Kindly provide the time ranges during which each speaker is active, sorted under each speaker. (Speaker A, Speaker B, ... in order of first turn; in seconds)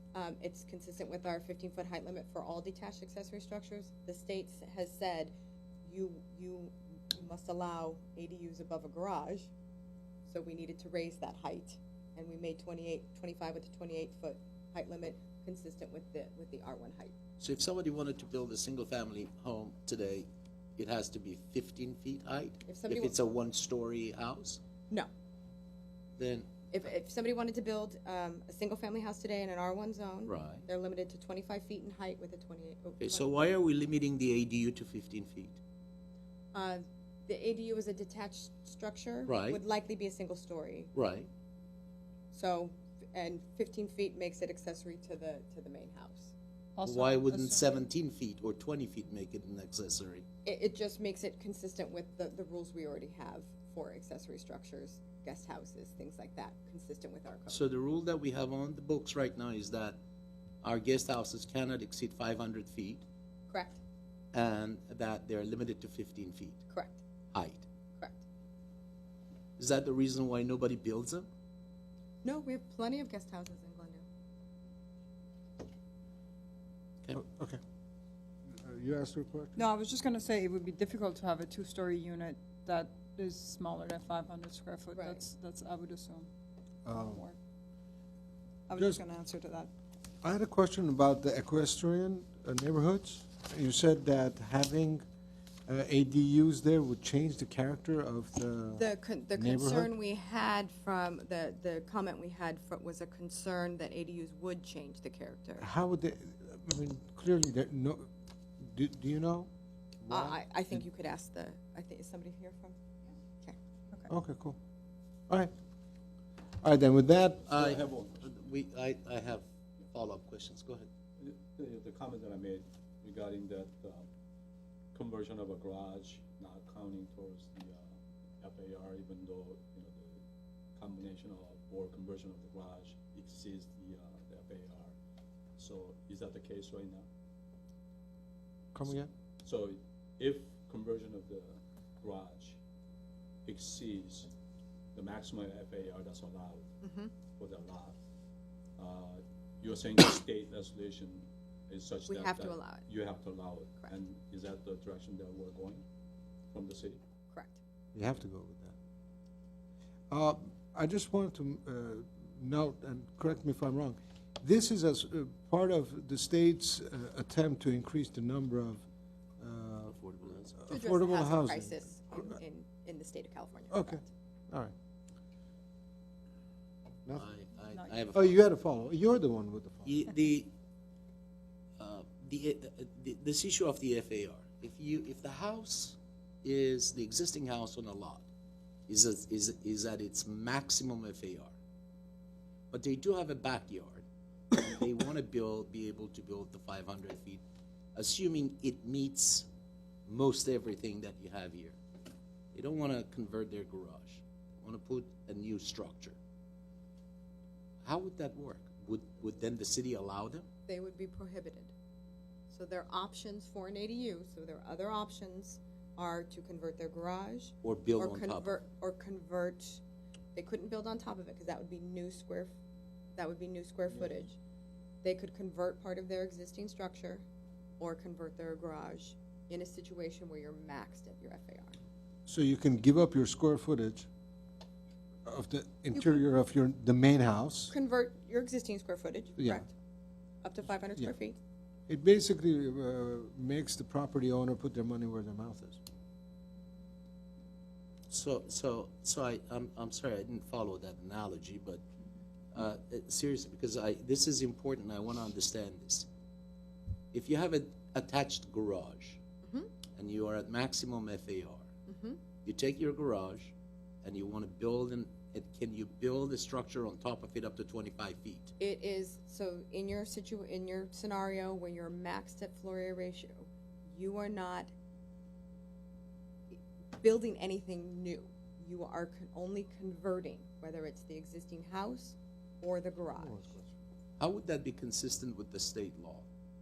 Speaker A: 0.1-5.3, 5.8-9.5, 10.3-17.1, 22.7-23.2, 26.7-33.6, 36.5-40.9, 42.3-46.3, 50.5-57.7, 63.5-63.8, 66.7-67.0, 68.0-68.2, 72.2-74.0, 84.9-85.3, 98.8-105.7, 110.1-112.8, 146.8-147.1, 152.1-152.9, 157.3-157.6, 170.7-174.1, 210.7-211.7, 212.5-219.8, 220.3-222.5, 223.2-224.4, 225.0-227.2, 227.8-231.8, 235.9-236.2, 237.7-239.7, 240.4-241.4, 259.4-259.7, 261.9-262.2, 268.6-274.7, 276.5-283.6
Speaker B: 17.4-24.6, 26.2-26.5, 30.3-30.6, 33.0-35.6, 39.3-39.6, 40.9-41.3, 46.8-50.3, 57.5-60.0, 60.6-63.0, 64.3-66.6, 67.3-67.6, 69.6-71.3, 117.5-120.9, 169.9-170.6, 177.1-178.4, 179.8-180.5, 181.8-188.3, 188.9-191.5, 192.7-197.4, 197.9-199.5, 200.1-201.8, 202.5-206.2, 207.8-210.5, 217.6-218.6, 248.1-251.8, 252.5-256.1, 257.1-259.2, 260.0-261.7, 262.4-268.5, 284.2-286.3
Speaker C: 46.8-47.8, 79.6-86.3, 86.9-87.4, 88.7-89.7, 177.7-178.1
Speaker D: 77.2-77.6, 78.5-79.6, 86.8-87.2, 88.8-89.0, 90.2-95.0, 95.7-99.9, 105.6-108.1, 108.6-109.5, 110.0-110.8, 114.1-114.6, 116.6-117.4, 138.7-139.1, 157.9-158.8, 160.1-168.8, 169.4-170.0, 170.6-172.4, 173.7-174.7, 178.1-180.0, 232.3-234.1, 235.3-237.7, 239.4-239.7, 241.9-245.8, 283.2-283.7
Speaker E: 117.4-118.4, 121.2-124.1, 124.9-127.9, 128.4-130.2, 130.8-134.9, 135.6-137.1, 139.4-142.6, 143.5-144.3, 144.9-146.7, 147.4-148.0, 148.8-155.8, 156.5-157.0